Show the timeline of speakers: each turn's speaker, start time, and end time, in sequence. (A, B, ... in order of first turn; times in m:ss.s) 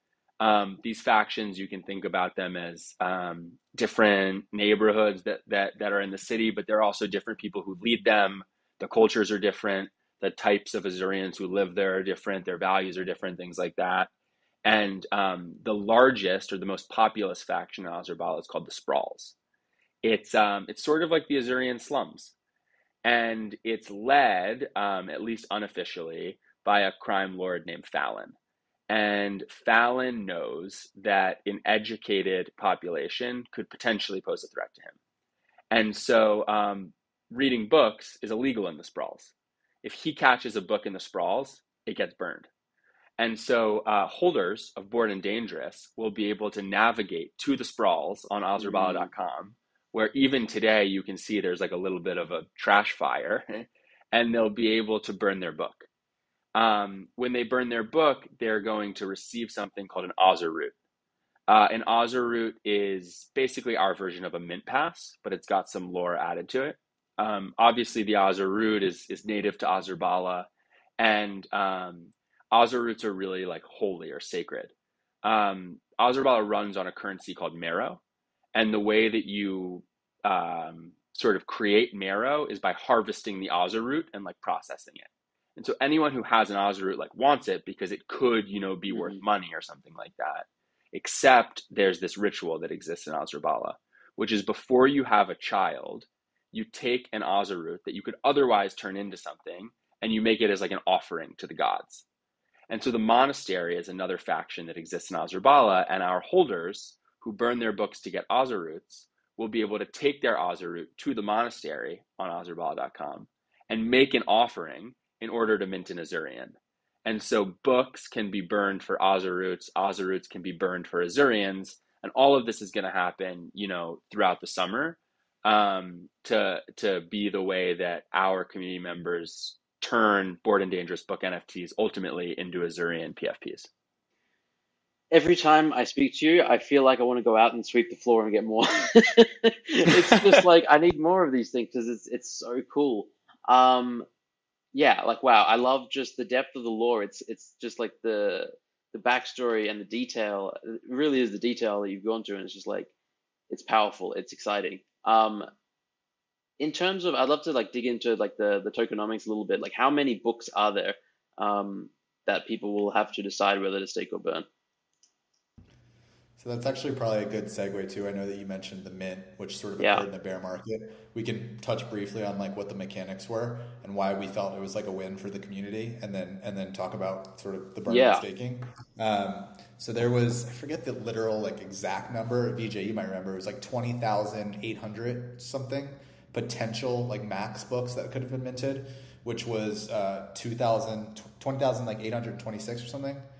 0:00.4-0:14.1 A
0:14.6-0:19.3 A
0:20.0-0:22.3 A
0:23.0-0:28.4 A
0:28.9-0:35.0 A
0:35.7-0:42.5 A
0:43.2-0:55.9 A
0:48.6-0:49.1 B
0:56.5-1:00.7 A
1:01.5-1:18.0 A
1:18.5-1:42.0 A
1:28.9-1:29.2 B
1:42.7-2:13.7 A
2:15.1-2:24.1 B
2:24.7-2:32.9 B
2:33.5-2:35.5 B
2:36.6-2:44.5 B
2:46.4-3:13.2 C
2:49.8-2:50.0 B
2:57.9-2:58.2 B